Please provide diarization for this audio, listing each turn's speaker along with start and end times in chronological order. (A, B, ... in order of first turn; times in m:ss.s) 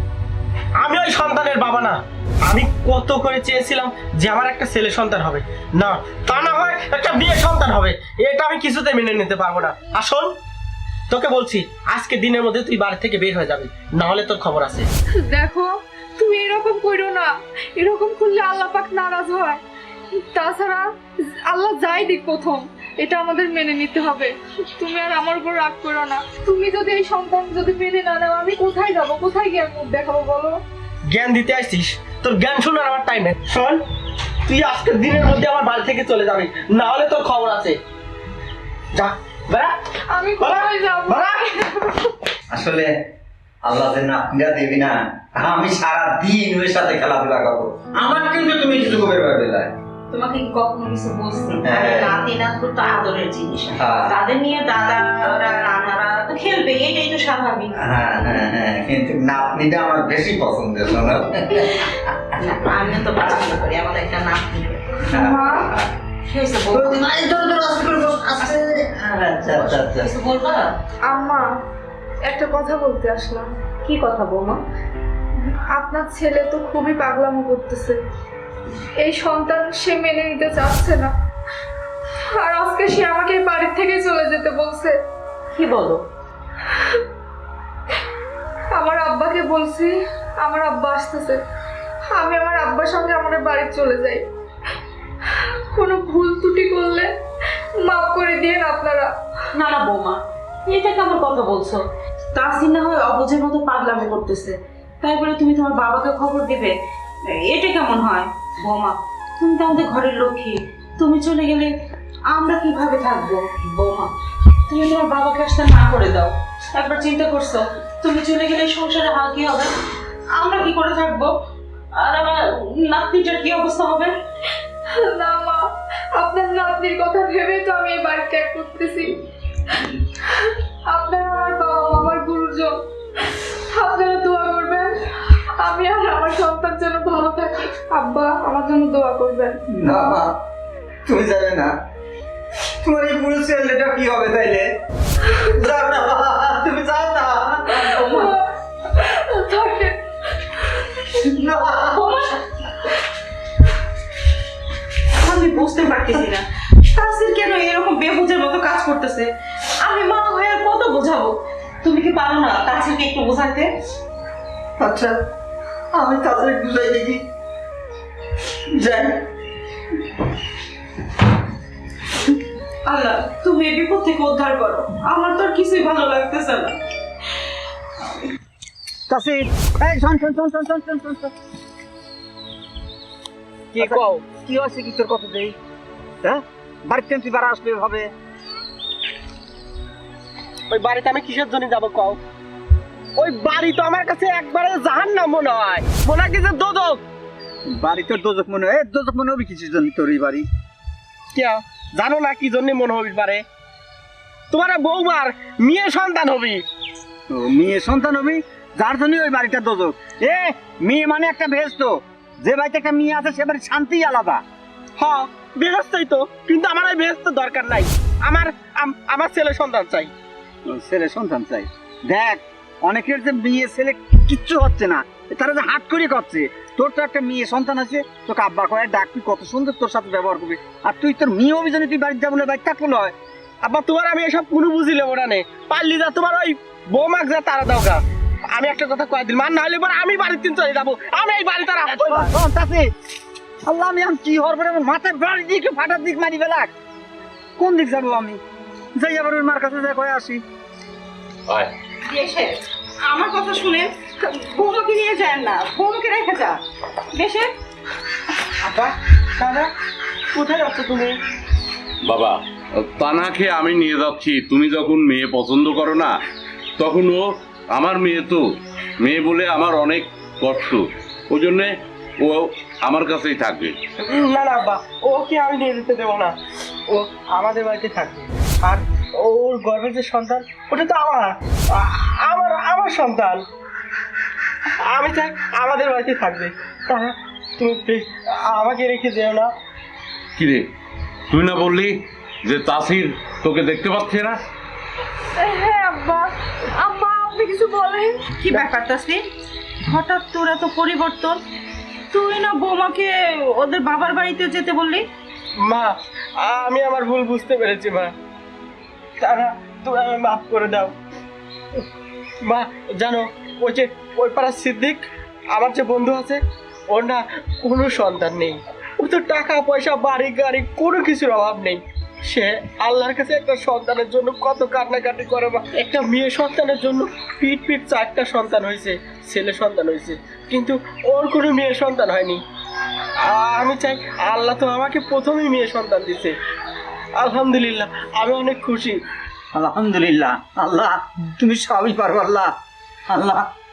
0:00.8-0:10.3 A
0:11.1-0:14.9 A
0:15.2-0:19.6 B
0:20.1-0:30.6 B
0:31.1-0:33.8 A
0:34.4-0:37.8 A
0:38.9-0:39.8 A
0:40.1-0:42.0 B
0:40.4-0:41.8 A
0:42.5-0:42.9 C
0:43.6-0:49.7 C
0:50.1-0:57.8 D
0:51.6-0:52.2 C
0:53.8-0:54.2 C
0:57.8-1:01.7 C
1:01.6-1:05.2 D
1:05.1-1:05.9 C
1:05.2-1:05.7 B
1:06.2-1:07.5 D
1:06.7-1:10.1 C
1:09.5-1:10.7 D
1:11.1-1:11.5 B
1:12.2-1:13.5 B
1:13.8-1:14.6 D
1:15.4-1:18.0 B
1:19.0-1:21.1 B
1:22.3-1:24.9 B
1:25.5-1:26.0 D
1:26.7-1:27.0 B
1:28.7-1:31.4 B
1:32.1-1:34.2 B
1:35.3-1:37.1 B
1:37.8-1:39.1 B
1:39.5-1:46.8 D
1:47.3-1:51.7 D
1:52.3-1:54.1 D
1:54.7-1:59.7 D
2:00.3-2:01.3 D
2:01.9-2:04.1 D
2:04.8-2:09.1 B
2:09.7-2:12.8 B
2:13.5-2:19.6 B
2:19.7-2:20.3 C
2:21.0-2:21.7 C
2:22.8-2:24.7 C
2:25.3-2:27.8 C
2:27.6-2:28.3 D
2:28.1-2:30.0 B
2:31.2-2:32.4 D
2:31.3-2:32.0 C
2:35.2-2:43.7 D
2:44.8-2:45.1 C
2:45.9-2:47.2 C
2:48.7-2:49.2 C
2:52.8-2:56.8 D
2:59.1-3:01.3 C
3:03.7-3:04.2 A
3:03.7-3:05.6 C
3:06.2-3:08.1 C
3:10.7-3:12.2 A
3:13.2-3:17.0 A
3:17.8-3:20.4 C
3:21.3-3:23.4 A
3:24.5-3:26.6 A
3:27.3-3:34.4 C
3:35.0-3:40.1 A
3:40.7-3:53.2 C
3:53.6-4:02.3 A
4:01.8-4:02.9 C
4:03.6-4:06.7 C
4:07.6-4:08.4 C
4:09.0-4:10.4 C
4:12.0-4:16.6 D
4:17.1-4:17.5 D
4:18.6-4:19.7 A
4:20.3-4:21.2 A
4:22.0-4:26.2 E
4:26.8-4:28.4 E
4:29.0-4:33.8 E
4:34.0-4:36.4 A
4:36.9-4:43.4 A
4:44.8-4:49.5 A
4:50.4-4:50.6 E
4:51.3-4:54.4 E
4:55.4-4:58.3 B
4:58.4-4:59.2 D
4:59.8-5:01.4 D
5:02.1-5:05.0 D
5:05.6-5:08.1 A
5:09.2-5:10.9 A
5:12.4-5:32.4 A
5:33.2-5:36.4 A
5:37.2-5:39.0 A
5:39.5-5:42.5 C
5:43.1-5:43.5 C